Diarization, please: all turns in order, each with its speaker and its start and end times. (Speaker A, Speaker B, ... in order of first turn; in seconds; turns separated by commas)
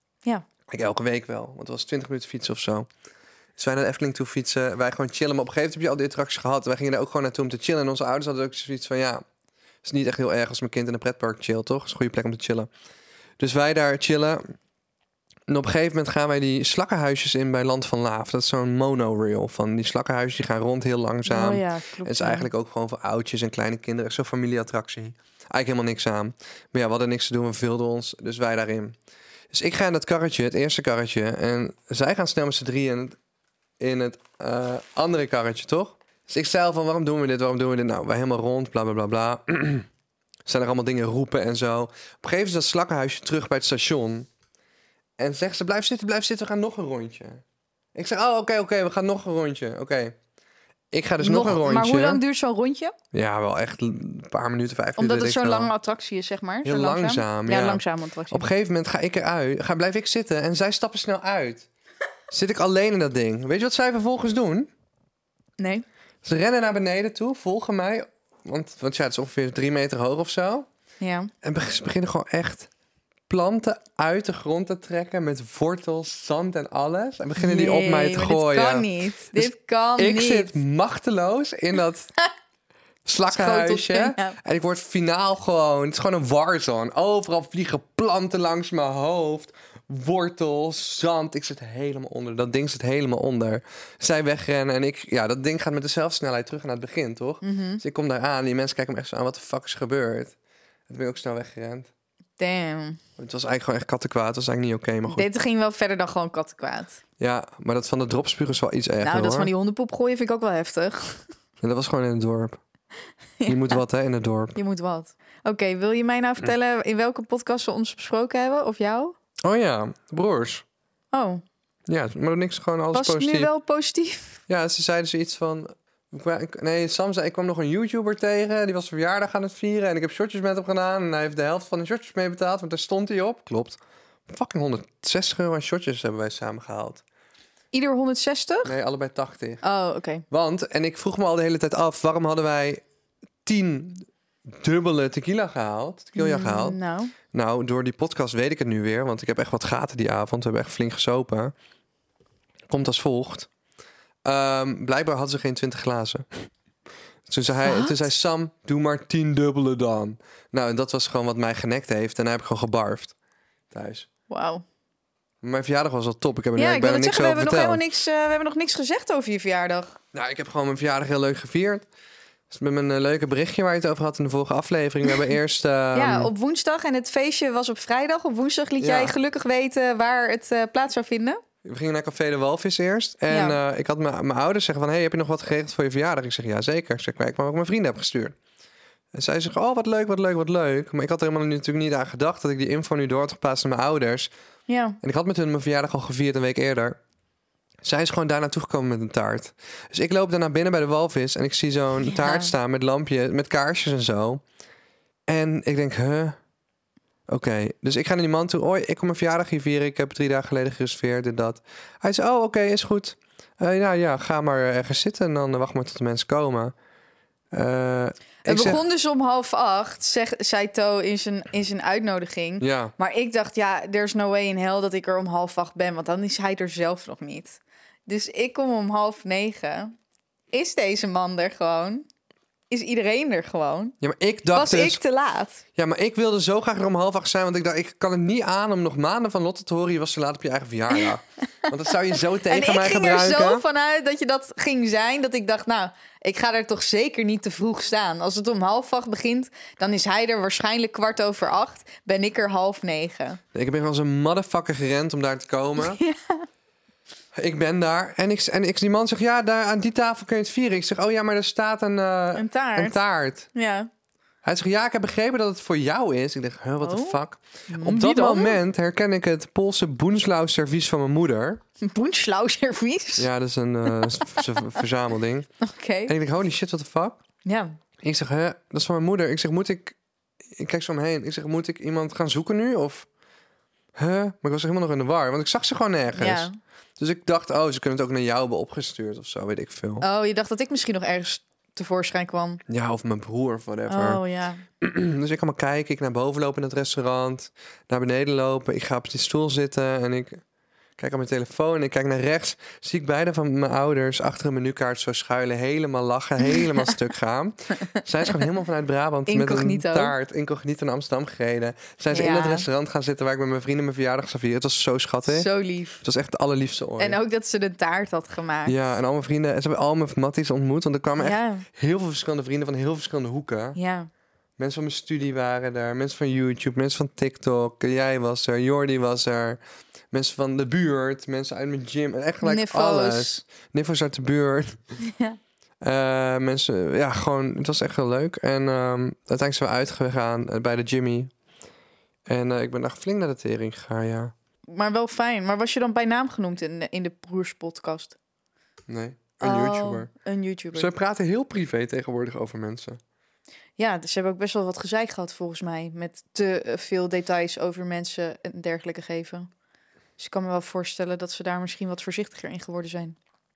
Speaker A: 0.7-2.9, Speaker A: 3.6-9.2, Speaker A: 9.8-12.7, Speaker A: 13.4-14.4, Speaker A: 15.5-29.0, Speaker B: 21.3-22.5, Speaker A: 29.5-33.2, Speaker A: 33.8-39.9, Speaker A: 40.5-44.3, Speaker A: 45.2-47.4, Speaker A: 48.0-50.2, Speaker A: 50.9-52.2, Speaker B: 51.2-53.0, Speaker A: 53.1-55.7, Speaker B: 55.0-58.5, Speaker A: 56.6-61.7, Speaker A: 62.3-64.7, Speaker B: 65.6-65.8, Speaker A: 66.2-70.7, Speaker B: 71.0-71.3, Speaker A: 71.4-72.7, Speaker A: 73.3-82.1, Speaker B: 77.4-80.6, Speaker A: 83.1-100.3, Speaker B: 83.3-84.4, Speaker B: 97.4-97.8, Speaker A: 100.9-101.9, Speaker B: 102.4-103.0, Speaker A: 103.2-105.3, Speaker B: 105.1-107.0, Speaker A: 107.2-109.5, Speaker B: 109.0-111.2, Speaker A: 111.6-112.6, Speaker B: 113.4-113.8, Speaker A: 113.5-114.6, Speaker B: 114.6-119.2, Speaker A: 119.4-120.6, Speaker B: 121.1-121.4, Speaker A: 121.9-123.5, Speaker B: 122.9-124.4, Speaker A: 124.5-137.0, Speaker B: 137.7-138.8, Speaker A: 138.6-139.6, Speaker B: 139.6-140.2, Speaker A: 140.3-142.8, Speaker A: 143.4-146.8, Speaker B: 146.2-147.1, Speaker A: 147.3-151.5, Speaker A: 152.7-153.5, Speaker A: 154.2-156.3, Speaker A: 157.3-163.1, Speaker B: 157.6-158.0, Speaker A: 163.7-164.1, Speaker B: 164.3-164.6, Speaker A: 165.4-167.8, Speaker B: 166.6-170.0, Speaker A: 170.1-171.9, Speaker A: 172.5-176.3, Speaker B: 175.9-181.4, Speaker A: 178.8-179.2, Speaker A: 181.6-188.4, Speaker B: 183.3-183.6, Speaker A: 189.1-194.3, Speaker B: 194.7-195.0, Speaker A: 195.0-197.0, Speaker A: 197.8-204.4, Speaker B: 202.0-202.5, Speaker A: 205.3-206.4, Speaker A: 207.3-216.7, Speaker A: 217.5-218.8, Speaker B: 218.4-229.9, Speaker A: 222.6-222.9, Speaker B: 230.5-232.1, Speaker B: 232.7-233.9, Speaker A: 234.0-235.0, Speaker B: 234.5-235.6, Speaker A: 235.8-243.6, Speaker B: 242.5-253.4, Speaker A: 253.5-256.0, Speaker B: 255.8-256.5, Speaker A: 257.4-263.5, Speaker B: 262.4-263.0, Speaker B: 263.5-263.9, Speaker A: 264.4-271.6, Speaker B: 266.8-267.2, Speaker B: 267.7-268.6, Speaker B: 271.8-273.3, Speaker A: 273.2-275.5, Speaker B: 273.9-274.5, Speaker B: 275.6-276.1, Speaker A: 276.1-277.2, Speaker B: 277.5-277.8, Speaker A: 278.0-280.0, Speaker A: 280.5-283.1, Speaker A: 284.0-290.1, Speaker B: 286.1-286.6, Speaker B: 290.0-292.6, Speaker A: 292.7-294.2, Speaker B: 293.9-294.6, Speaker A: 294.8-300.4, Speaker A: 301.0-315.5, Speaker B: 309.3-310.1, Speaker B: 312.1-312.7, Speaker B: 315.3-316.0, Speaker A: 316.0-317.2, Speaker B: 317.0-318.8, Speaker A: 318.7-323.8, Speaker B: 321.2-321.7, Speaker B: 323.8-324.1, Speaker A: 324.6-329.6, Speaker A: 330.1-334.8, Speaker B: 332.4-333.4, Speaker B: 335.0-335.4, Speaker A: 335.8-341.3, Speaker A: 342.3-344.3, Speaker B: 344.7-348.2, Speaker A: 348.9-350.1, Speaker B: 349.4-350.9, Speaker A: 350.7-353.0, Speaker B: 353.8-359.5, Speaker B: 360.2-363.2